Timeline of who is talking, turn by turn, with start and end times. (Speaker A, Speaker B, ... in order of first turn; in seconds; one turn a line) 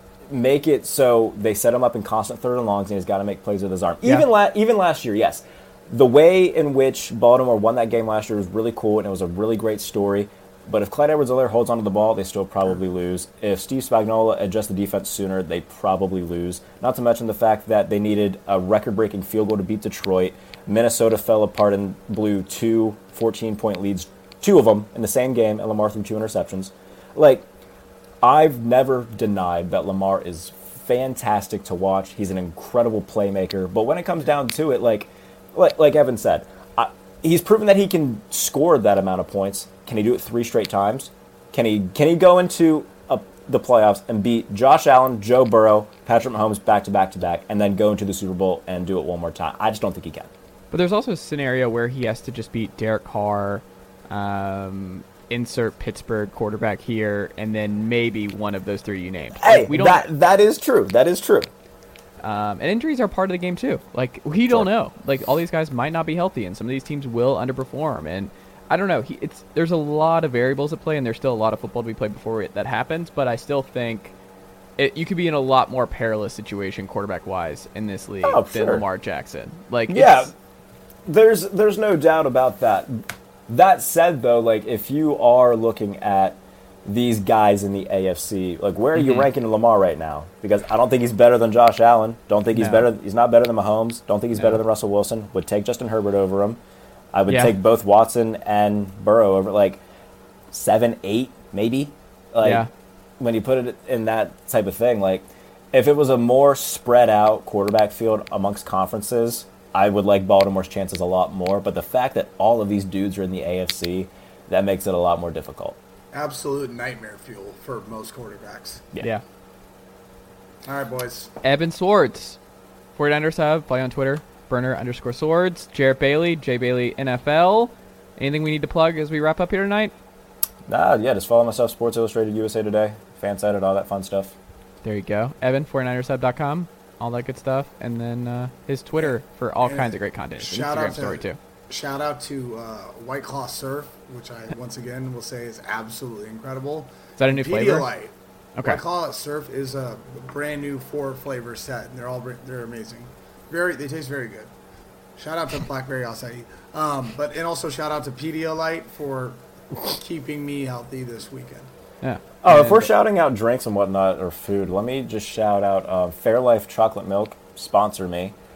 Speaker A: 0.3-27.5
Speaker A: 28.2-50.3
Speaker B: 50.7-60.1
Speaker A: 59.4-61.5
Speaker B: 62.2-74.2
Speaker B: 74.8-80.3
Speaker A: 78.2-78.8
Speaker A: 79.9-80.3
Speaker A: 81.0-96.6
Speaker B: 88.9-89.3
Speaker B: 92.5-92.9
Speaker B: 94.3-94.6
Speaker A: 97.1-99.8
Speaker B: 97.3-97.5
Speaker A: 100.5-102.7
Speaker B: 102.4-102.7
Speaker A: 103.2-115.8
Speaker C: 116.1-118.8
Speaker C: 120.7-121.3
Speaker B: 121.4-122.4
Speaker B: 122.9-129.9
Speaker A: 130.7-134.3
Speaker B: 134.8-141.4
Speaker C: 139.0-154.5
Speaker B: 147.2-147.9
Speaker C: 155.2-161.7
Speaker B: 162.0-162.9
Speaker A: 162.4-168.3